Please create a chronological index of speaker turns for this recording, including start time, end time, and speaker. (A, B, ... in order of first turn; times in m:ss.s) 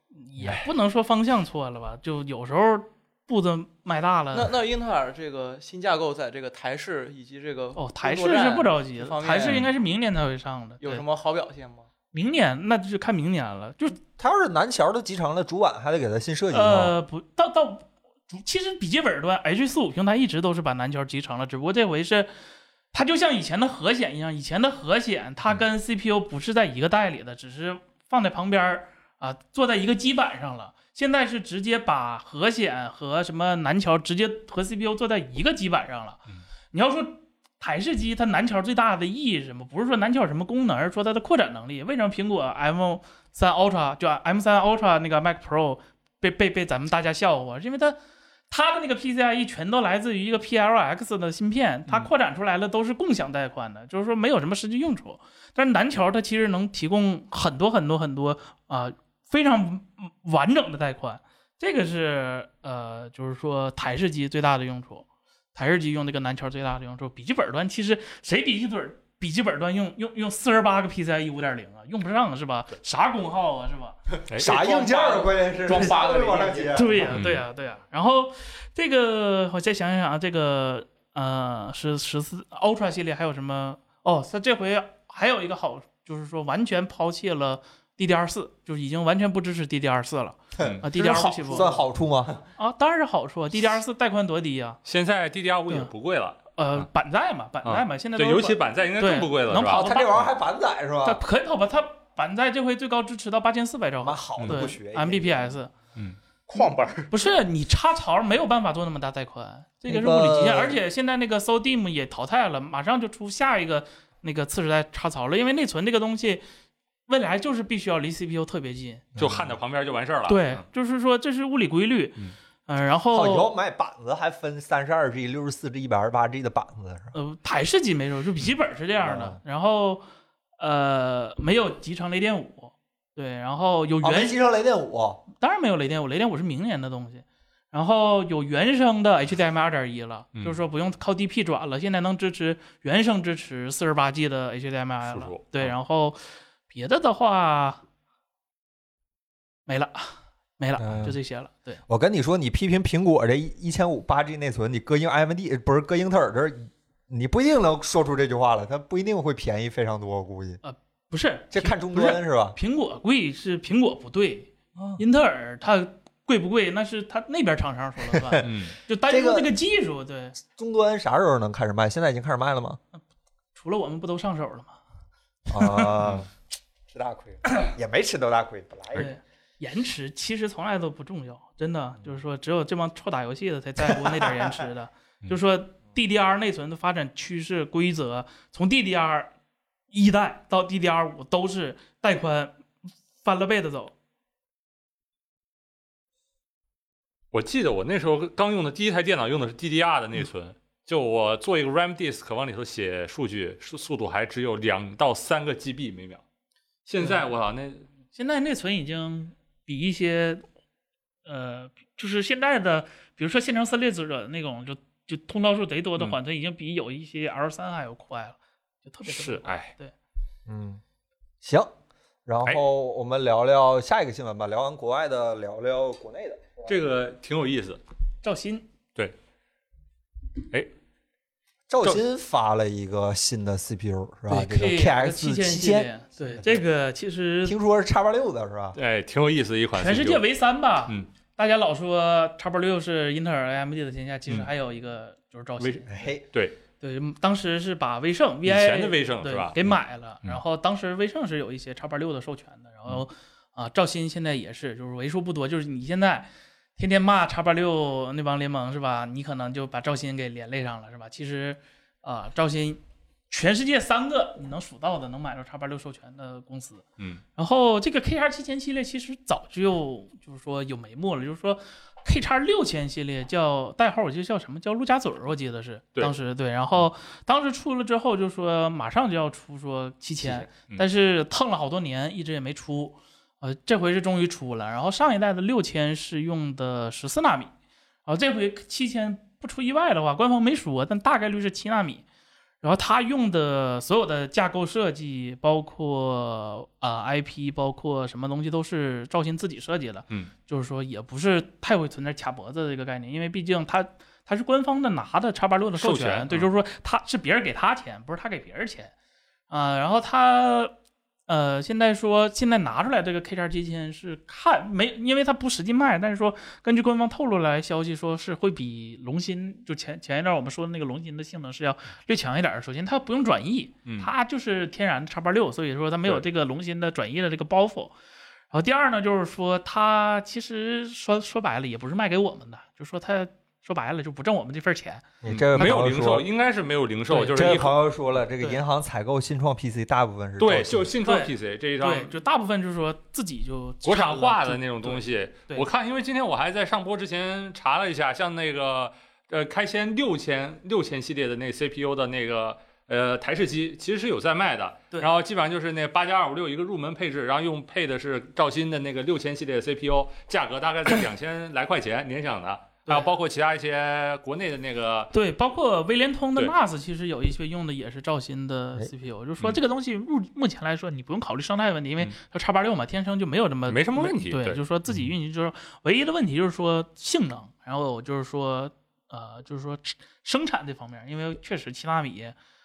0:00.2-0:04.5 A
0:04.3-0:09.7 B
0:07.8-0:11.0 A
0:09.4-0:09.7 C
0:10.8-0:11.9 B
0:12.1-0:14.0 A
0:14.2-0:16.9 D
0:16.5-0:22.3 A
0:22.9-0:48.0 A
0:48.5-1:15.9 A
1:14.4-1:17.2 D
1:15.6-1:17.1 B
1:16.7-1:31.8 A
1:17.1-1:17.4 C
1:30.6-1:32.4 D
1:30.6-1:30.9 C
1:32.6-1:34.8 A
1:34.8-1:36.9 C
1:36.6-1:40.3 A
1:37.6-1:39.9 C
1:39.6-1:41.2 D
1:41.0-1:45.7 A
1:44.0-1:45.6 D
1:44.4-1:44.6 C
1:46.5-1:47.1 B
1:47.1-1:56.4 A
1:49.9-1:50.8 D
1:57.1-1:59.1 A
1:59.1-1:59.5 D
1:59.2-2:00.6 C
2:00.3-2:03.5 A
2:03.1-2:07.1 D
2:07.1-2:10.0 A
2:09.0-2:09.4 D
2:10.6-2:14.4 A
2:14.0-2:15.2 D
2:15.4-2:27.8 A
2:25.0-2:25.7 C
2:29.7-2:31.8 A
2:30.8-2:31.2 D
2:31.9-2:40.6 D
2:40.6-2:50.4 A
2:41.5-2:42.6 D
2:48.1-2:48.5 D
2:48.4-2:48.8 C
2:49.1-2:49.5 D
2:50.4-2:52.8 D
2:53.6-2:54.8 A
2:55.5-2:56.3 D
2:55.6-2:55.9 A
2:56.9-2:59.1 D
2:59.0-3:09.3 A
3:03.9-3:04.5 D
3:09.9-3:12.6 A
3:13.2-3:13.9 A
3:17.3-3:26.2 C
3:26.9-3:27.9 C
3:28.1-3:30.4 A
3:31.2-3:39.9 A
3:39.1-3:39.7 C
3:40.5-3:40.8 D
3:41.4-3:41.7 D
3:42.3-3:46.7 D
3:46.6-3:47.8 C
3:48.2-3:48.6 A
3:51.7-3:56.4 D
3:54.3-3:57.6 A
3:57.4-3:58.8 D
3:58.8-4:00.2 C
3:59.8-4:06.0 A
4:05.6-4:06.6 C
4:05.9-4:06.2 D
4:06.8-4:26.8 A
4:08.4-4:09.7 C
4:27.4-4:47.5 A
4:40.2-4:40.8 C
4:48.1-4:52.0 A
4:52.6-5:08.9 A
5:05.8-5:06.5 C
5:09.5-5:10.8 A
5:11.3-5:27.9 A
5:28.5-5:35.0 A
5:35.2-5:36.3 D
5:35.3-5:37.8 C
5:37.1-5:37.5 A
5:37.3-5:40.9 D
5:40.4-5:42.2 C
5:41.0-5:45.6 A
5:43.8-6:05.1 C
6:05.1-6:22.4 A
6:13.7-6:14.6 C